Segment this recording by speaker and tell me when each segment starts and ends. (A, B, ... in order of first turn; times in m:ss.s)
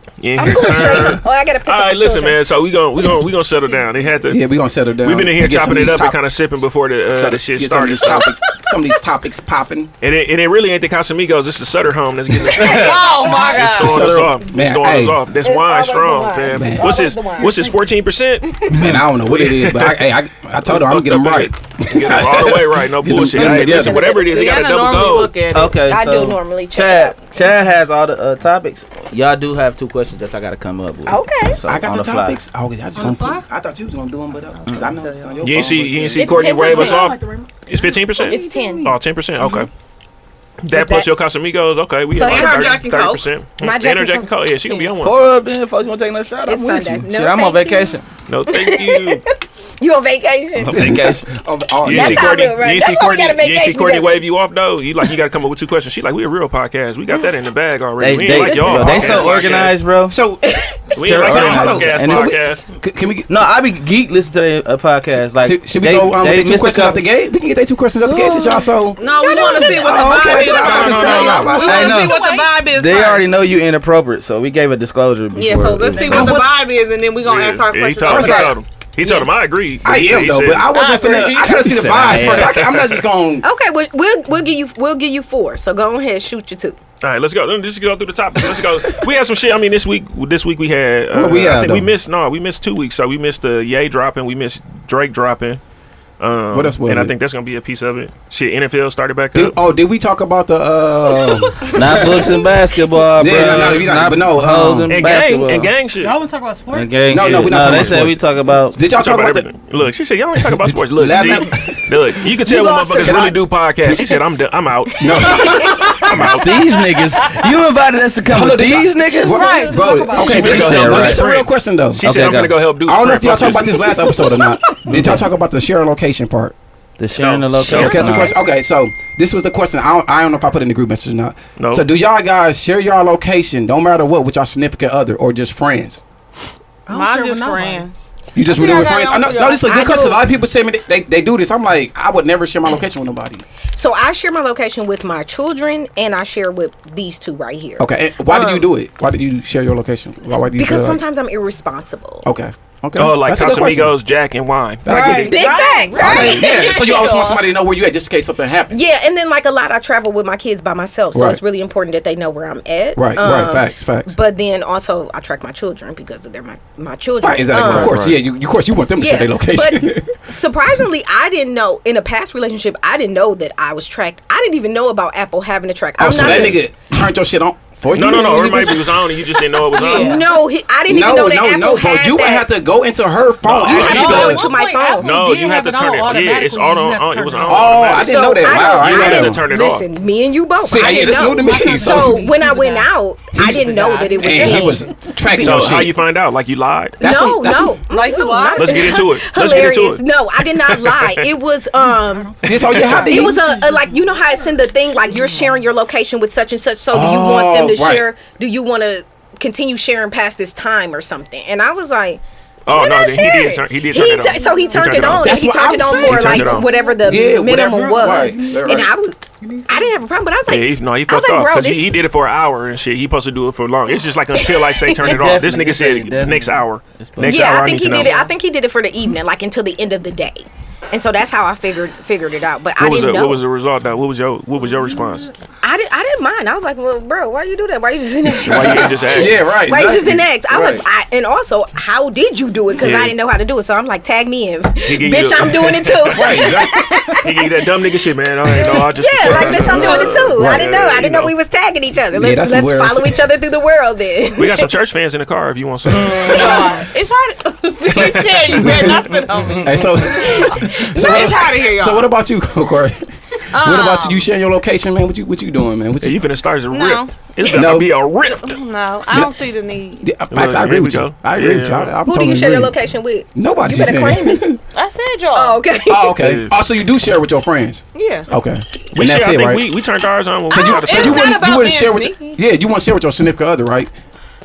0:00.2-0:04.4 A
0:00.4-0:02.4 B
0:00.5-0:01.1 C
0:04.3-0:09.9 C
0:05.0-0:08.3 A
0:10.0-0:20.1 A
0:12.4-0:13.0 C
0:12.6-0:14.1 D
0:13.2-0:13.5 B
0:13.6-0:15.2 C
0:15.4-0:17.8 B
0:16.5-0:16.9 C
0:18.7-0:24.0 C
0:20.6-0:25.3 A
0:23.6-0:24.5 B
0:23.8-0:25.8 D
0:25.5-0:32.4 E
0:25.8-0:27.3 B
0:31.1-0:31.6 B
0:31.7-0:36.1 C
0:33.0-0:33.5 F
0:34.5-0:35.4 D
0:34.7-0:36.5 E
0:35.4-0:39.7 A
0:36.2-0:37.1 B
0:36.4-0:38.1 F
0:38.1-0:39.6 B
0:40.6-0:45.3 A
0:40.7-0:41.1 B
0:42.1-0:43.3 D
0:42.2-0:42.8 B
0:43.6-0:44.9 B
0:45.0-0:48.1 E
0:46.4-0:48.0 B
0:48.3-0:49.2 A
0:48.5-0:50.9 B
0:50.6-0:51.3 E
0:50.7-0:52.5 C
0:51.8-0:59.8 A
0:51.9-0:54.2 B
0:58.0-1:00.2 E
0:58.3-0:59.0 B
0:58.8-0:59.4 C
1:00.1-1:00.5 C
1:00.4-1:00.9 B
1:01.0-1:02.6 A
1:01.0-1:02.3 E
1:01.1-1:03.3 C
1:03.3-1:07.0 E
1:05.4-1:09.0 C
1:08.1-1:12.4 B
1:09.0-1:13.4 D
1:09.6-1:12.1 C
1:10.5-1:11.5 A
1:11.6-1:16.4 E
1:15.3-1:19.2 D
1:15.9-1:16.2 F
1:16.0-1:16.6 C
1:17.2-1:20.7 A
1:18.0-1:18.6 C
1:19.8-1:23.4 C
1:20.7-1:21.7 D
1:21.6-1:22.6 E
1:22.0-1:23.0 A
1:23.4-1:26.8 B
1:27.0-1:35.6 A
1:31.1-1:31.9 C
1:36.2-1:39.6 A
1:36.5-1:37.1 C
1:39.3-1:42.4 C
1:41.7-1:45.7 E
1:43.2-1:44.9 C
1:43.4-1:43.8 A
1:44.9-1:46.2 A
1:46.0-1:47.2 F
1:46.7-1:48.8 E
1:47.1-1:49.5 C
1:47.2-1:48.1 A
1:49.0-1:56.9 A
1:50.4-1:54.2 C
1:55.0-1:56.4 C
1:55.6-1:55.9 B
1:56.2-2:01.2 E
1:58.3-2:02.0 C
1:59.2-2:00.9 F
2:00.2-2:04.2 A
2:02.0-2:02.6 E
2:02.8-2:06.6 C
2:04.9-2:05.2 E
2:07.0-2:08.4 E
2:07.2-2:08.3 A
2:07.7-2:16.0 C
2:07.8-2:08.4 B
2:11.6-2:11.9 A
2:16.9-2:17.9 F
2:16.9-2:20.0 D
2:18.4-2:23.4 C
2:19.6-2:20.2 B
2:23.7-2:28.6 B
2:27.8-2:31.0 C
2:30.6-2:32.3 B
2:32.2-2:34.0 C
2:33.0-2:35.2 A
2:34.8-2:35.4 C
2:34.9-2:37.5 D
2:34.9-2:36.7 B
2:35.3-2:36.2 F
2:36.0-2:38.8 C
2:38.7-2:48.0 B
2:41.1-2:41.4 C
2:43.0-2:44.1 C
2:47.2-2:50.1 C
2:47.6-2:48.2 A
2:49.0-2:56.6 B
2:56.0-2:59.1 C
2:56.2-2:56.6 A
2:57.9-3:00.2 A
2:59.7-3:00.3 D
2:59.7-3:02.5 B
3:00.9-3:04.4 C
3:03.4-3:04.4 A
3:03.6-3:05.1 B
3:03.8-3:07.8 F
3:04.1-3:05.0 D
3:05.0-3:09.9 A
3:07.5-3:09.4 C
3:07.9-3:15.7 B
3:10.6-3:12.3 C
3:11.0-3:15.1 F
3:13.3-3:16.0 C
3:15.4-3:17.0 A
3:17.0-3:17.8 C
3:17.0-3:42.0 B
3:17.9-3:19.0 D
3:18.6-3:21.3 A
3:21.9-3:25.6 F
3:22.4-3:23.4 C
3:22.6-3:23.1 A
3:26.9-3:28.1 C
3:32.7-3:35.4 A
3:34.3-3:35.0 F
3:35.1-3:38.9 C
3:36.0-3:36.7 A
3:36.5-3:40.0 F
3:40.5-3:48.3 A
3:45.0-3:47.5 E
3:47.2-3:53.4 B
3:52.8-3:55.3 A
3:55.6-4:07.5 B
3:58.4-4:00.8 C
3:58.5-3:59.4 A
4:02.8-4:03.1 A
4:04.9-4:06.5 A
4:06.1-4:06.8 C
4:07.2-4:11.3 A
4:08.6-4:14.7 B
4:09.3-4:09.8 C
4:09.6-4:10.3 D
4:10.3-4:11.0 C
4:12.1-4:13.3 C
4:14.4-4:16.5 A
4:15.9-4:16.3 E
4:16.1-4:22.1 D
4:16.2-4:16.8 C
4:17.9-4:26.2 C
4:17.9-4:18.9 A
4:23.5-4:24.3 D
4:26.0-4:28.6 A
4:26.7-4:27.3 D
4:27.5-4:27.9 C
4:28.3-4:30.1 D
4:30.0-4:32.8 C
4:30.3-4:31.9 A
4:32.1-4:34.5 B
4:33.4-4:34.6 C
4:34.7-4:35.6 D
4:35.3-4:36.2 B
4:35.9-4:39.7 C
4:36.2-4:36.5 A
4:38.0-4:38.3 D
4:38.9-4:41.3 A
4:40.5-4:42.4 D
4:40.5-4:43.9 C